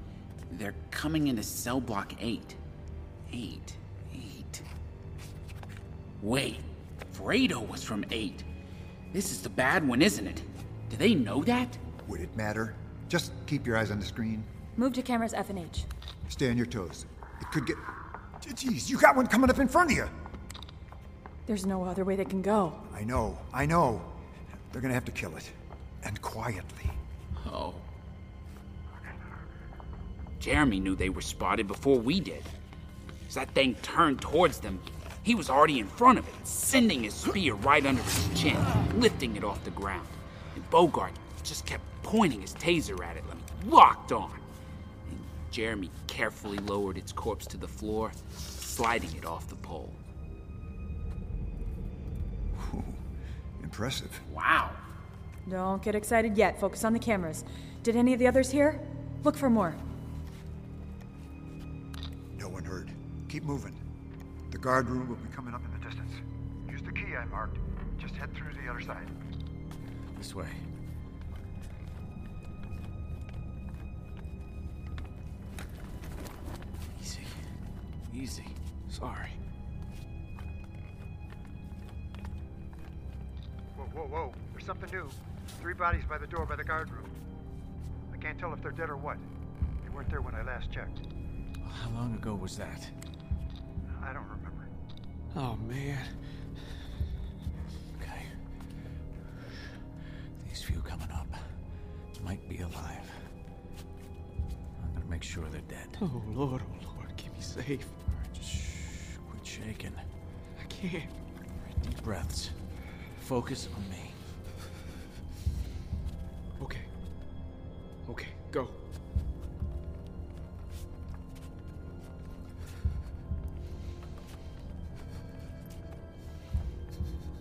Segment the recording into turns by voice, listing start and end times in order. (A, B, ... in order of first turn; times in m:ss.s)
0:00.5-0:02.6 A
0:03.3-0:04.6 A
0:06.2-0:08.5 A
0:09.1-0:11.8 A
0:12.0-0:14.5 B
0:14.8-0:15.9 C
0:16.3-0:17.8 B
0:18.4-0:20.1 B
0:21.5-0:22.8 C
0:22.9-0:24.2 B
0:24.7-0:27.0 B
0:27.4-0:27.8 A
0:30.4-0:32.5 A
0:33.3-0:44.4 A
0:45.1-0:50.0 A
0:52.5-0:53.0 B
0:53.6-0:54.2 B
0:54.3-0:54.8 A
0:55.4-0:59.8 C
1:02.3-1:03.8 B
1:04.5-1:09.1 B
1:10.2-1:10.6 D
1:17.0-1:17.4 D
1:18.1-1:18.5 D
1:18.9-1:19.4 E
1:23.7-1:27.1 B
1:28.1-1:29.2 B
1:29.8-1:31.0 B
1:31.6-1:32.9 D
1:33.9-1:34.7 B
1:35.3-1:36.1 E
1:38.0-1:38.3 D
1:40.4-1:41.4 D
1:42.1-1:43.2 D
1:44.8-1:46.0 D
1:46.0-1:47.9 E
1:48.1-1:50.0 D
1:50.6-1:51.1 E
1:51.7-1:52.6 D
1:53.2-1:54.2 D
1:56.6-1:56.9 E
1:58.0-1:58.8 E